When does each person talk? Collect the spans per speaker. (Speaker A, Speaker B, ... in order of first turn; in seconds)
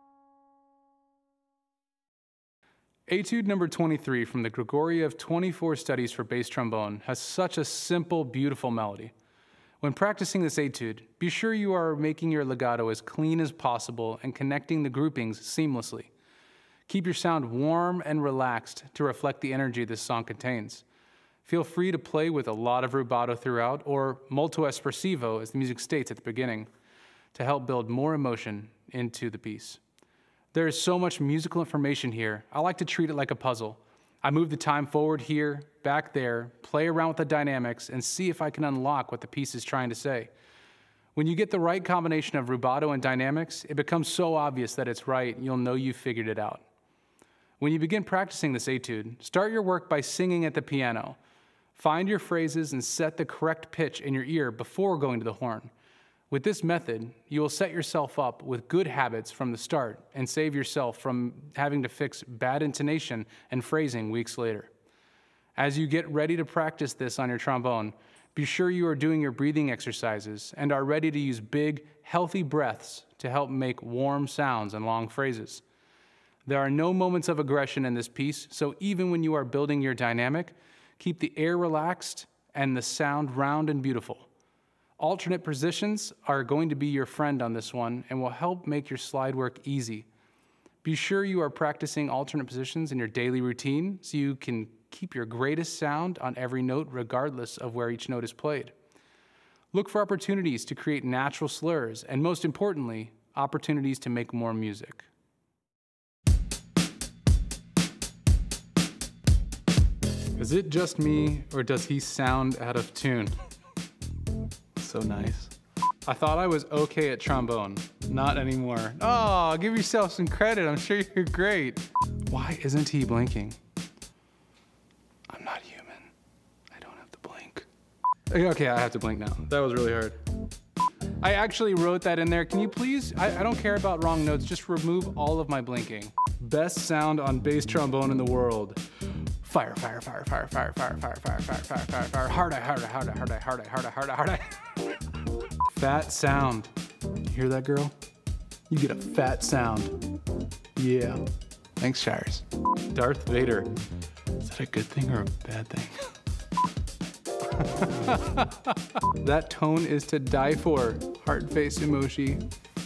Speaker A: 3.1-9.1, 9.8-16.1, 16.9-20.9, 21.4-26.7, 27.3-29.8, 30.5-40.3, 41.1-46.6, 47.6-51.2, 51.8-55.7, 56.3-64.7, 65.6-75.6, 76.5-84.3, 85.0-90.1, 90.8-98.8, 99.7-105.1, 110.4-113.4, 114.8-115.5, 116.0-123.6, 125.3-126.1, 126.7-127.7, 128.3-130.2, 131.2-138.8, 139.4-144.8, 145.7-146.7, 147.2-147.9, 148.7-150.0, 150.8-151.2, 151.8-153.7, 154.4-156.1, 157.6-162.4